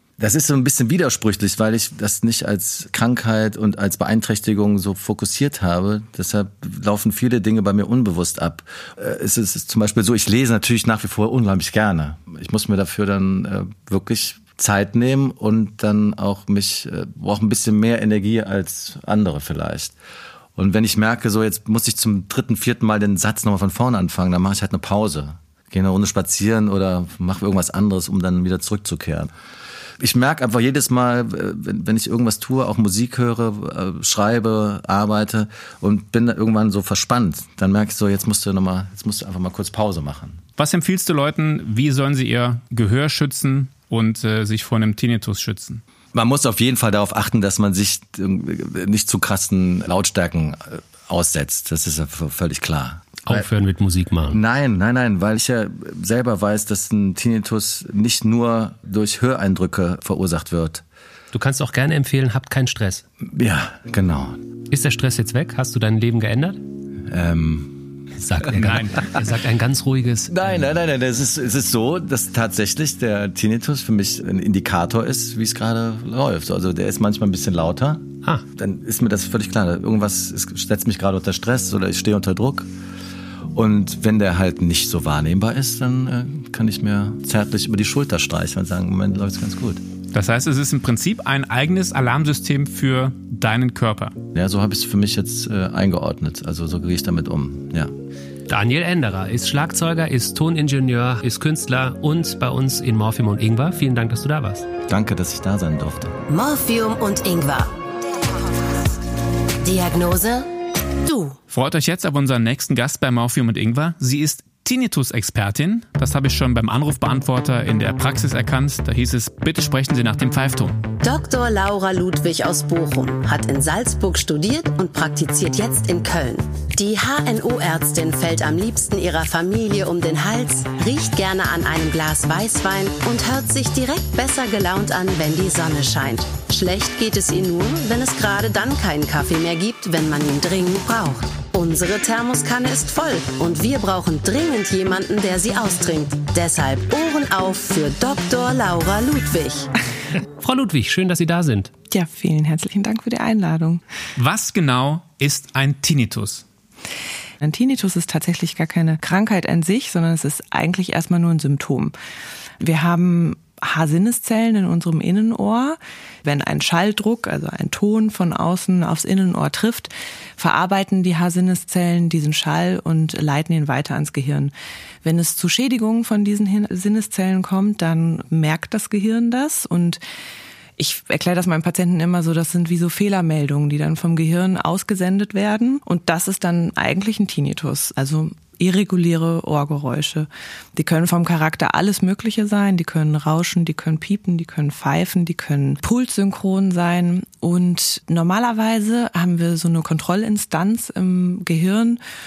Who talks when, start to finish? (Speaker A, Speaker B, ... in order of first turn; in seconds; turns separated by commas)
Speaker A: 0.2-19.9, Speaker A: 20.6-29.3, Speaker A: 30.0-40.4, Speaker B: 40.6-45.8, Speaker A: 46.1-53.4, Speaker C: 53.2-54.4, Speaker A: 54.3-60.8, Speaker C: 61.3-63.0, Speaker A: 63.2-64.4, Speaker C: 64.7-66.6, Speaker A: 67.1-67.9, Speaker C: 68.2-70.5, Speaker A: 70.3-82.7, Speaker A: 83.5-89.8, Speaker B: 90.1-94.1, Speaker A: 94.3-97.9, Speaker C: 98.5-104.7, Speaker A: 104.9-106.1, Speaker D: 106.3-107.7, Speaker D: 109.6-110.5, Speaker D: 111.0-111.4, Speaker B: 111.5-120.8, Speaker D: 121.0-149.7, Speaker C: 150.4-151.7, Speaker E: 151.9-153.8, Speaker B: 154.2-156.4, Speaker E: 157.4-161.9, Speaker E: 162.6-174.5, Speaker E: 175.0-180.0, Speaker E: 180.8-202.0